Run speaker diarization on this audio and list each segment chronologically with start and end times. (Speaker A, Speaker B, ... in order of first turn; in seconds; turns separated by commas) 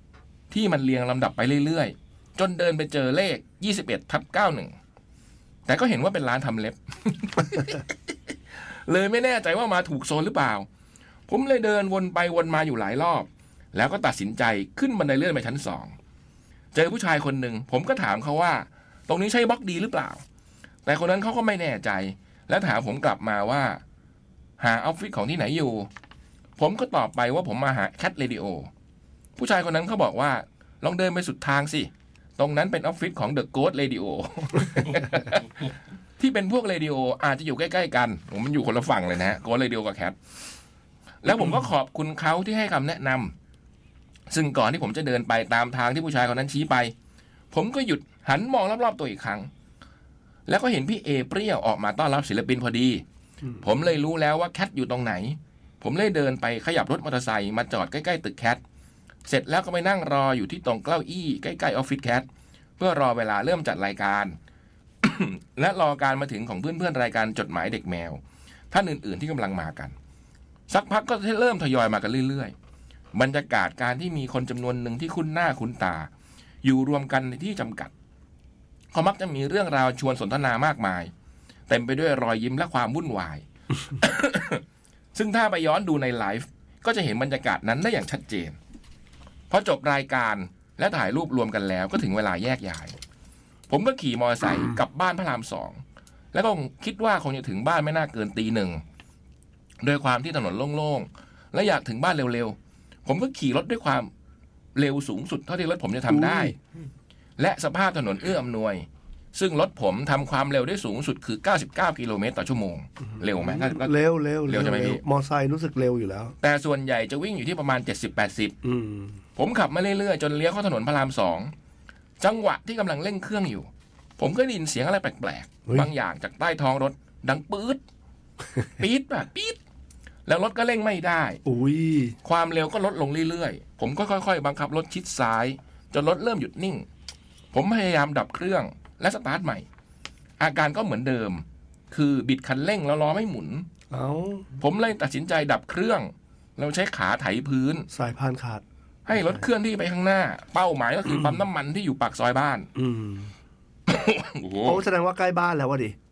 Speaker A: 0.5-4.7, Speaker A: 5.7-7.9, Speaker A: 8.7-10.7, Speaker A: 11.3-15.9, Speaker A: 16.7-20.2, Speaker A: 20.9-23.8, Speaker A: 24.6-25.9, Speaker A: 26.6-28.7, Speaker A: 29.4-35.5, Speaker A: 36.2-40.1, Speaker A: 41.2-43.3, Speaker A: 44.3-46.9, Speaker A: 47.5-49.5, Speaker A: 50.5-53.0, Speaker A: 53.6-58.6, Speaker A: 59.2-62.3, Speaker A: 62.8-64.3, Speaker A: 65.0-68.2, Speaker A: 68.7-69.9, Speaker A: 70.7-72.5, Speaker A: 73.1-76.1, Speaker A: 76.6-77.9, Speaker A: 78.9-81.1, Speaker A: 81.7-84.6, Speaker A: 85.1-88.5, Speaker A: 89.5-93.0, Speaker A: 93.7-95.8, Speaker A: 96.3-98.8, Speaker A: 99.8-104.1, Speaker A: 104.7-106.5, Speaker B: 106.1-106.5, Speaker A: 107.4-113.9, Speaker B: 113.3-116.3, Speaker A: 114.5-115.0, Speaker A: 116.4-118.5, Speaker B: 118.6-119.2, Speaker A: 119.3-121.5, Speaker A: 122.2-127.8, Speaker A: 128.8-129.6, Speaker A: 130.2-131.4, Speaker B: 131.4-132.2, Speaker A: 132.2-136.8, Speaker A: 137.5-139.6, Speaker A: 140.4-143.7, Speaker B: 143.9-144.5, Speaker A: 144.6-147.9, Speaker B: 147.9-149.4, Speaker A: 149.1-152.7, Speaker B: 151.1-151.4, Speaker B: 152.7-153.3, Speaker A: 153.9-154.8, Speaker B: 154.6-155.9